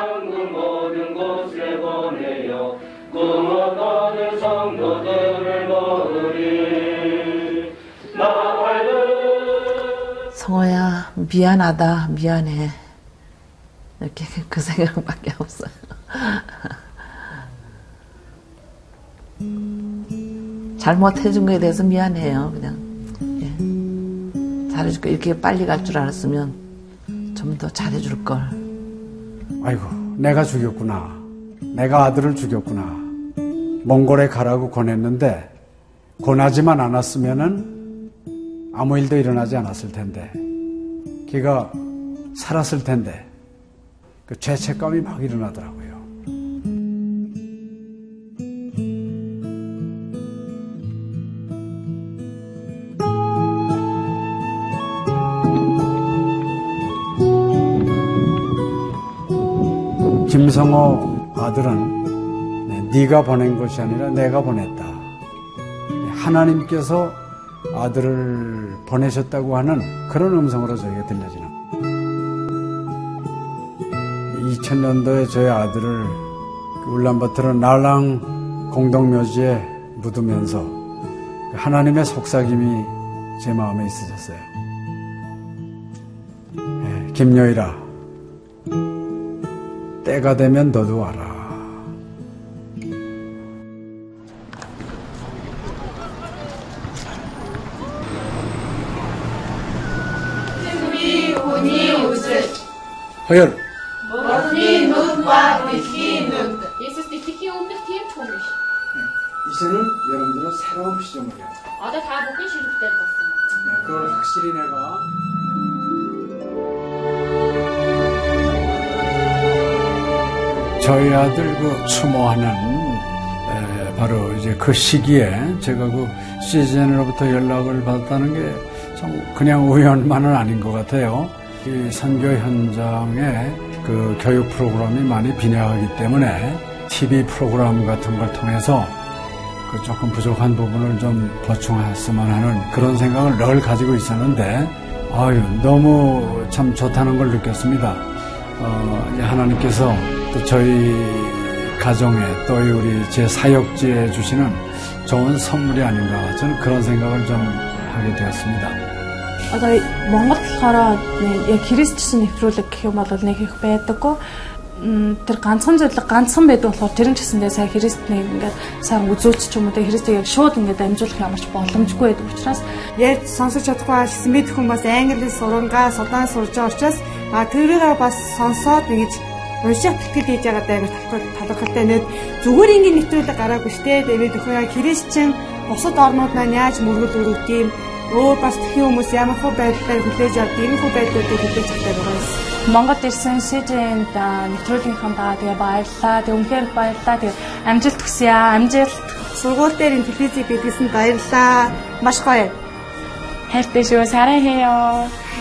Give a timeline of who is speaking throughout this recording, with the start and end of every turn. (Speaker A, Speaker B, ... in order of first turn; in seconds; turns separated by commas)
Speaker A: 10.3-12.8, Speaker A: 14.0-16.5, Speaker A: 20.8-22.9, Speaker A: 23.4-23.6, Speaker A: 24.7-26.6, Speaker A: 27.4-28.6, Speaker B: 29.6-33.1, Speaker B: 33.8-35.5, Speaker B: 36.2-37.8, Speaker B: 38.7-40.4, Speaker B: 41.3-41.8, Speaker B: 42.3-43.3, Speaker B: 44.3-46.0, Speaker B: 60.3-62.0, Speaker B: 62.7-65.1, Speaker B: 66.0-67.2, Speaker B: 67.7-71.5, Speaker B: 74.3-76.2, Speaker B: 76.8-80.8, Speaker B: 81.5-84.5, Speaker B: 86.8-87.8, Speaker B: 90.0-91.7, Speaker B: 103.3-103.6, Speaker C: 105.7-108.6, Speaker B: 109.0-111.6, Speaker C: 111.8-113.5, Speaker B: 113.6-115.1, Speaker B: 120.8-139.0, Speaker B: 139.7-148.1, Speaker B: 148.6-158.8, Speaker D: 159.5-164.2, Speaker D: 164.8-172.6, Speaker E: 173.0-192.5, Speaker D: 192.6-199.1, Speaker E: 199.3-202.6, Speaker D: 203.5-205.1